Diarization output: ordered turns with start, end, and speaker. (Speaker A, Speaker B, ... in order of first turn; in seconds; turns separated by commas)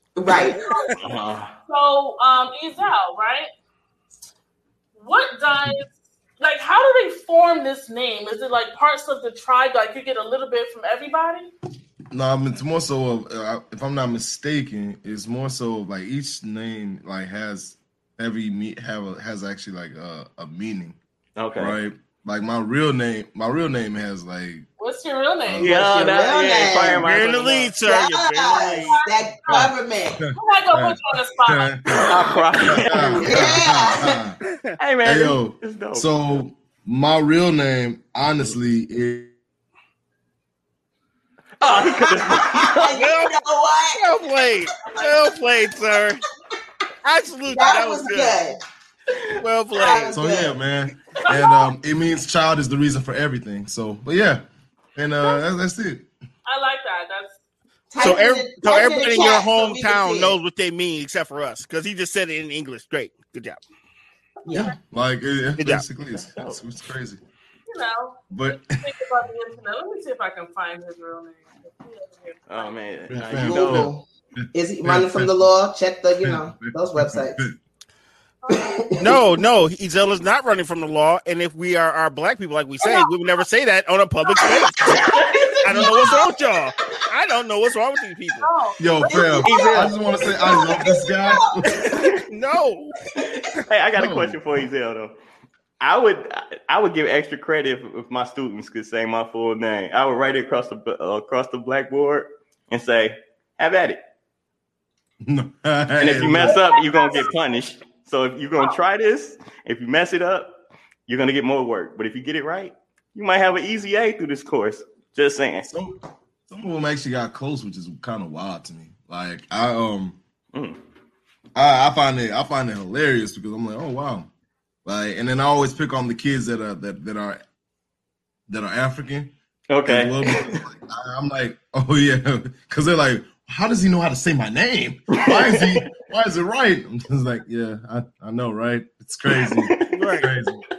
Speaker A: 0.1-0.6, Speaker B: 0.3-0.9, Speaker C: 0.4-0.9, Speaker D: 1.0-1.5, Speaker B: 1.7-3.5, Speaker B: 5.0-11.5, Speaker E: 12.1-21.0, Speaker D: 21.4-21.8, Speaker E: 21.6-24.6, Speaker B: 24.8-26.2, Speaker D: 25.6-27.7, Speaker A: 25.7-27.0, Speaker C: 26.9-28.9, Speaker A: 27.8-30.2, Speaker B: 28.9-29.7, Speaker E: 29.5-32.1, Speaker B: 30.3-32.1, Speaker A: 32.0-32.4, Speaker D: 32.0-33.6, Speaker E: 32.7-34.4, Speaker A: 33.0-34.2, Speaker C: 34.5-34.7, Speaker D: 34.8-36.2, Speaker E: 35.0-39.3, Speaker D: 41.6-43.0, Speaker A: 41.6-44.0, Speaker C: 42.9-43.3, Speaker C: 44.0-46.2, Speaker B: 44.8-45.1, Speaker C: 47.0-48.4, Speaker A: 47.5-48.6, Speaker C: 49.4-50.2, Speaker A: 49.7-50.6, Speaker E: 50.1-54.4, Speaker B: 51.2-51.7, Speaker E: 54.9-56.1, Speaker B: 56.5-57.4, Speaker A: 57.9-60.4, Speaker C: 58.0-63.6, Speaker A: 64.4-64.7, Speaker E: 64.5-67.2, Speaker C: 65.6-65.8, Speaker D: 66.1-66.6, Speaker B: 67.7-72.7, Speaker E: 68.3-68.8, Speaker D: 72.5-73.9, Speaker E: 73.1-75.4, Speaker A: 73.4-77.4, Speaker E: 76.2-77.6, Speaker B: 78.4-78.8, Speaker A: 78.5-79.3, Speaker C: 79.0-84.9, Speaker A: 84.4-86.3, Speaker C: 85.6-88.5, Speaker E: 85.8-86.0, Speaker B: 88.4-88.8, Speaker E: 88.8-91.8, Speaker A: 89.0-92.1, Speaker D: 89.4-90.0, Speaker D: 91.8-92.2, Speaker C: 92.3-93.0, Speaker D: 93.2-95.1, Speaker E: 94.0-94.4, Speaker D: 95.8-104.0, Speaker E: 105.2-106.6, Speaker D: 106.0-115.7, Speaker B: 106.5-107.3, Speaker E: 115.7-115.9, Speaker E: 116.5-120.2, Speaker D: 120.5-120.8, Speaker E: 121.5-124.3, Speaker E: 124.8-127.4, Speaker E: 128.5-129.3, Speaker D: 129.7-130.6, Speaker E: 129.8-140.6, Speaker D: 135.1-135.9, Speaker D: 139.3-140.2, Speaker C: 139.9-140.3